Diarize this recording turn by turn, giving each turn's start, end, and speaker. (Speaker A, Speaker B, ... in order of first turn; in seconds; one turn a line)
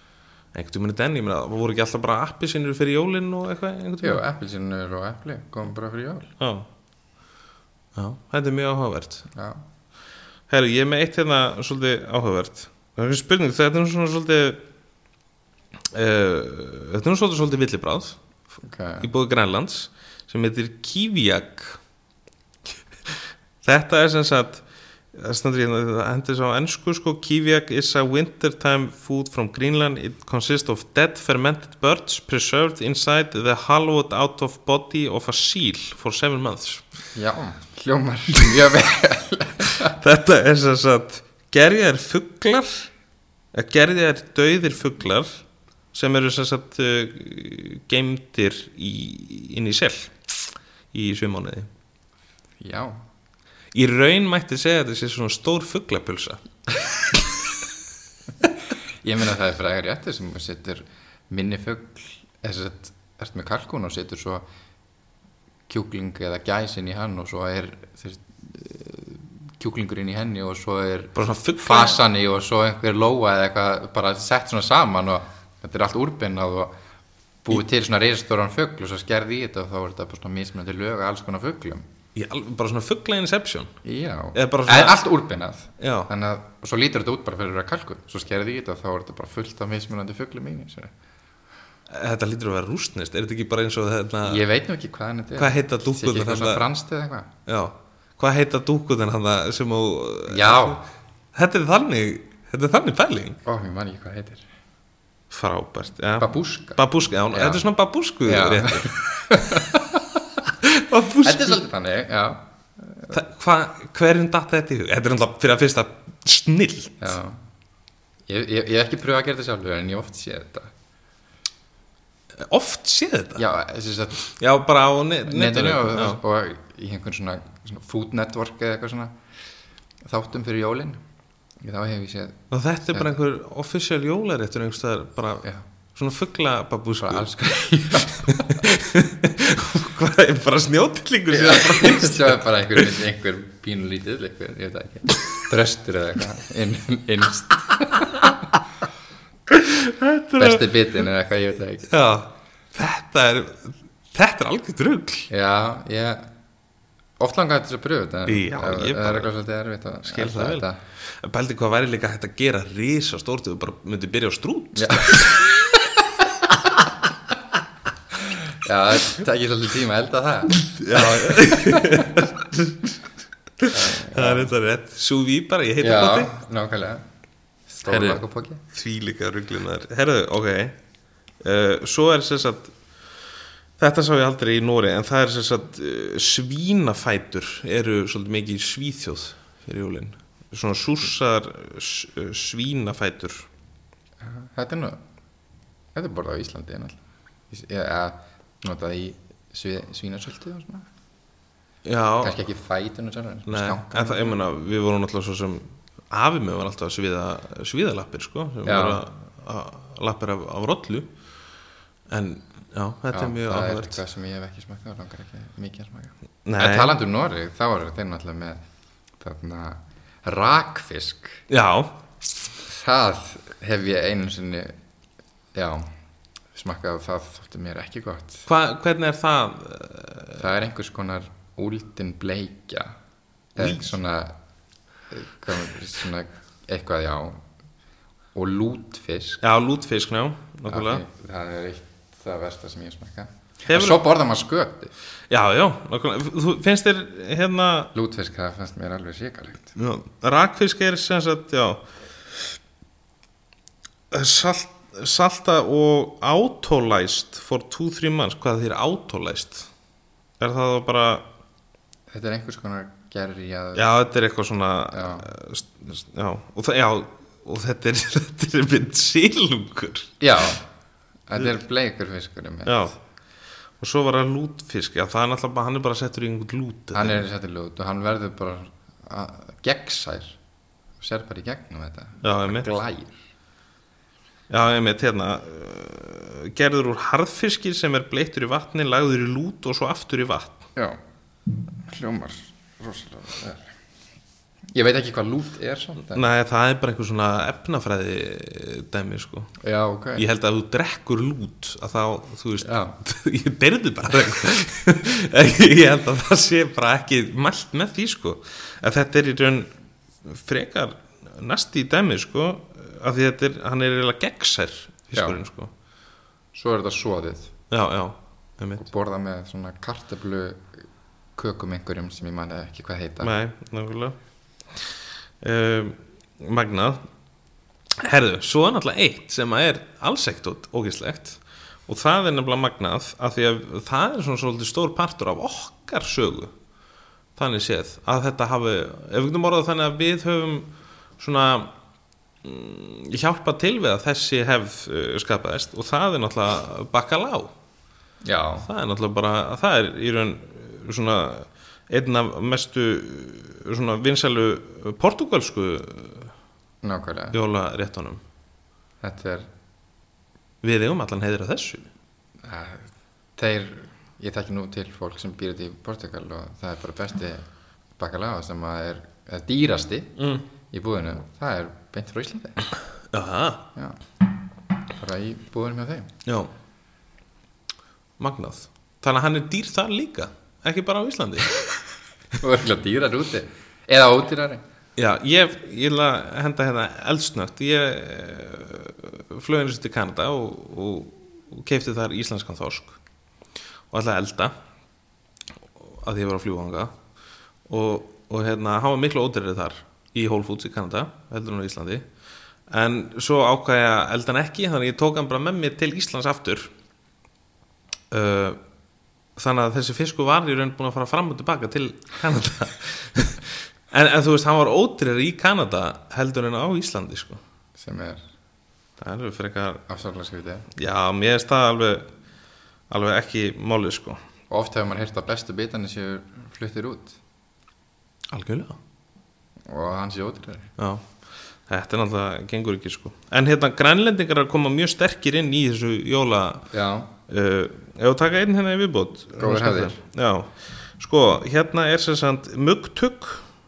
Speaker A: 0.5-4.2
Speaker B: 4.0-6.3
Speaker A: 6.4-6.7
Speaker A: 8.0-9.3
Speaker B: 9.3-9.6
Speaker A: 10.5-14.6
Speaker A: 15.9-18.2
Speaker B: 18.6-19.1
Speaker A: 19.0-21.8
Speaker A: 23.1-36.9
Speaker B: 37.1-40.0
Speaker A: 39.6-42.9
Speaker A: 43.5-51.7
Speaker B: 52.6-53.0
Speaker A: 53.7-56.4
Speaker B: 59.0-64.5
Speaker B: 65.7-76.7
Speaker A: 71.2-72.0
Speaker B: 77.4-81.8
Speaker A: 82.2-83.7
Speaker B: 83.8-90.9
Speaker A: 84.3-85.0
Speaker A: 85.8-86.1
Speaker A: 91.9-94.4
Speaker B: 94.2-97.3
Speaker A: 95.4-96.7
Speaker A: 97.5-100.8
Speaker B: 100.3-100.8
Speaker A: 101.3-103.4
Speaker B: 103.5-104.5
Speaker A: 105.3-109.8
Speaker B: 106.2-107.6
Speaker B: 108.2-110.2
Speaker A: 110.5-111.6
Speaker B: 111.2-113.1
Speaker A: 113.1-117.1
Speaker B: 117.0-117.4
Speaker B: 118.3-120.7
Speaker A: 122.4-123.4
Speaker B: 123.4-124.2
Speaker A: 124.2-126.2
Speaker B: 125.2-129.2
Speaker B: 130.0-131.0
Speaker B: 131.6-133.1
Speaker A: 132.5-142.8
Speaker B: 137.0-138.7
Speaker B: 141.3-148.4
Speaker A: 149.5-150.7
Speaker B: 150.4-151.9
Speaker A: 151.9-155.3
Speaker B: 155.3-156.3
Speaker B: 157.2-160.8
Speaker A: 158.3-159.3
Speaker A: 160.1-165.6
Speaker B: 164.8-166.2
Speaker B: 168.1-172.2
Speaker A: 170.6-173.0
Speaker A: 173.6-176.3
Speaker B: 173.7-174.5
Speaker B: 175.8-177.1
Speaker B: 177.7-178.6
Speaker A: 177.9-180.8
Speaker A: 181.4-182.8
Speaker A: 183.8-193.5
Speaker B: 194.2-195.0
Speaker B: 195.9-200.9
Speaker A: 201.8-202.4
Speaker B: 202.2-204.4
Speaker A: 203.5-211.1
Speaker B: 208.7-209.0
Speaker A: 212.1-214.0
Speaker B: 213.1-218.6
Speaker A: 216.4-217.0
Speaker B: 219.2-221.4
Speaker A: 221.5-222.0
Speaker B: 222.7-224.8
Speaker B: 225.5-225.9
Speaker B: 226.5-228.5
Speaker A: 228.5-230.4
Speaker B: 230.4-232.9
Speaker B: 233.6-234.4
Speaker B: 235.1-237.4
Speaker B: 238.3-239.4
Speaker A: 239.4-241.0
Speaker B: 240.7-244.9
Speaker A: 243.7-244.0
Speaker A: 245.3-247.9
Speaker B: 247.9-249.8
Speaker A: 249.8-251.9
Speaker A: 254.1-259.7
Speaker A: 260.4-261.3
Speaker B: 262.1-263.9
Speaker A: 263.8-270.2
Speaker B: 264.9-265.3
Speaker B: 270.2-270.7
Speaker B: 271.3-272.9
Speaker A: 272.7-273.0
Speaker A: 273.8-277.3
Speaker B: 276.9-280.4
Speaker B: 281.0-283.2
Speaker A: 282.2-282.7
Speaker A: 284.5-290.7
Speaker B: 291.8-293.7
Speaker B: 294.7-296.2
Speaker A: 296.1-299.5
Speaker B: 299.6-300.2
Speaker A: 300.2-309.7
Speaker B: 302.6-303.0
Speaker A: 310.2-315.7
Speaker B: 315.1-315.4
Speaker B: 316.5-317.5
Speaker A: 317.7-318.9
Speaker B: 318.8-320.8
Speaker B: 321.4-323.3
Speaker A: 323.2-324.2
Speaker A: 325.4-327.0
Speaker A: 328.0-336.5
Speaker A: 337.4-341.7
Speaker A: 342.4-347.5
Speaker B: 348.2-348.7
Speaker A: 348.6-356.3
Speaker B: 356.8-357.4
Speaker A: 357.3-358.2
Speaker B: 359.0-359.5
Speaker A: 360.6-361.9
Speaker B: 362.4-367.5
Speaker B: 368.0-370.2
Speaker A: 370.2-370.5
Speaker B: 370.7-372.6
Speaker A: 373.1-373.7
Speaker B: 373.8-374.0
Speaker B: 374.9-376.1
Speaker A: 376.3-376.5
Speaker A: 378.2-381.7
Speaker B: 382.4-384.6
Speaker A: 385.0-393.0
Speaker A: 393.9-394.5
Speaker A: 395.8-396.9
Speaker A: 397.7-402.1
Speaker A: 402.7-406.7
Speaker A: 408.1-408.6
Speaker A: 409.4-417.4
Speaker B: 417.8-418.2
Speaker A: 419.0-419.9
Speaker B: 419.9-420.7
Speaker A: 420.8-422.1
Speaker A: 422.9-424.2
Speaker B: 424.5-427.2
Speaker A: 428.3-428.8
Speaker B: 429.7-430.7
Speaker A: 430.8-431.1
Speaker A: 431.7-436.7
Speaker B: 436.7-437.1
Speaker A: 437.3-443.5
Speaker B: 439.4-440.0